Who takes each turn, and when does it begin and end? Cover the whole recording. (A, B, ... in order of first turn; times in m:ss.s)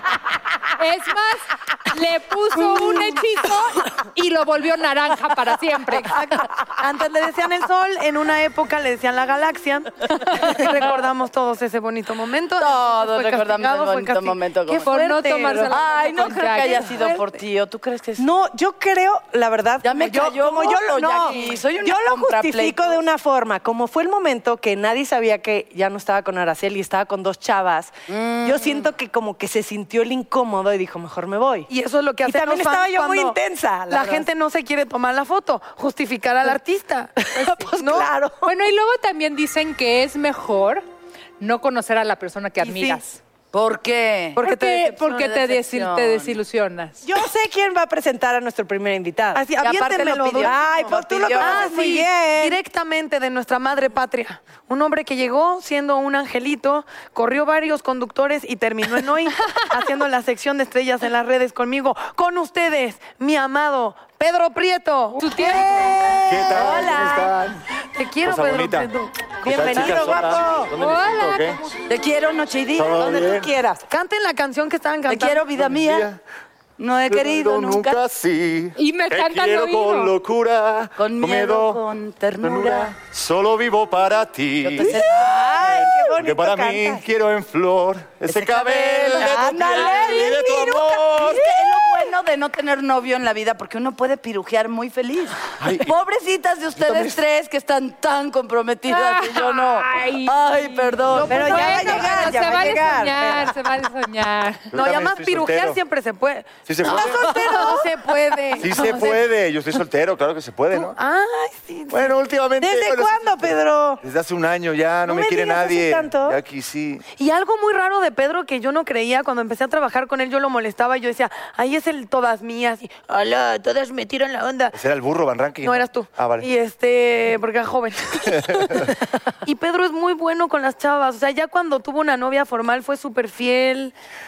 0:00.8-0:06.2 A
0:06.1-0:15.8 B
0:12.6-0:14.9 C
0:14.7-0:17.1 A
0:15.7-0:18.3 C
0:18.2-0:27.9 D
0:19.8-0:23.0 C
0:28.1-0:28.9 C
0:28.4-0:31.7 D
0:31.7-0:38.1 B
0:32.2-0:34.3 D
0:37.2-0:38.5 D
0:38.4-0:40.8 A
0:41.4-0:43.2 A
0:42.6-0:43.0 B
0:43.5-0:44.4 C
0:44.3-0:45.5 B
0:44.4-0:47.1 A
0:45.5-0:46.4 C
0:47.0-0:49.5 D
0:49.3-1:05.6 B
0:49.6-0:51.8 C
0:50.4-0:52.6 D
1:05.2-1:05.9 A
1:06.2-1:07.6 E
1:06.3-1:06.9 C
1:06.5-1:07.3 D
1:06.6-1:07.1 B
1:08.0-1:10.2 B
1:08.2-1:08.9 E
1:09.4-1:11.6 E
1:09.4-1:10.7 D
1:10.7-1:11.6 A
1:11.9-1:13.5 C
1:12.8-1:13.5 E
1:13.1-1:13.8 D
1:13.8-1:15.5 B
1:15.0-1:16.1 C
1:15.5-1:16.2 E
1:16.8-1:18.0 C
1:17.1-1:21.8 E
1:18.8-1:20.1 A
1:21.0-1:22.9 C
1:22.4-1:25.0 E
1:24.6-1:25.5 C
1:24.8-1:27.0 D
1:25.7-1:31.4 E
1:28.3-1:41.9 C
1:28.9-1:29.3 D
1:29.8-1:30.3 A
1:35.6-1:35.9 E
1:36.8-1:37.2 E
1:38.9-1:44.7 A
1:41.2-1:43.6 D
1:44.7-1:45.8 E
1:44.7-1:49.2 B
1:46.7-1:47.6 E
1:48.6-1:51.0 E
1:50.8-1:52.1 B
1:51.9-1:57.0 E
1:52.6-1:54.0 D
1:55.0-1:56.4 D
1:57.2-2:04.8 B
2:04.7-2:06.5 E
2:05.6-2:08.9 B
2:08.3-2:08.9 E
2:09.4-2:13.9 B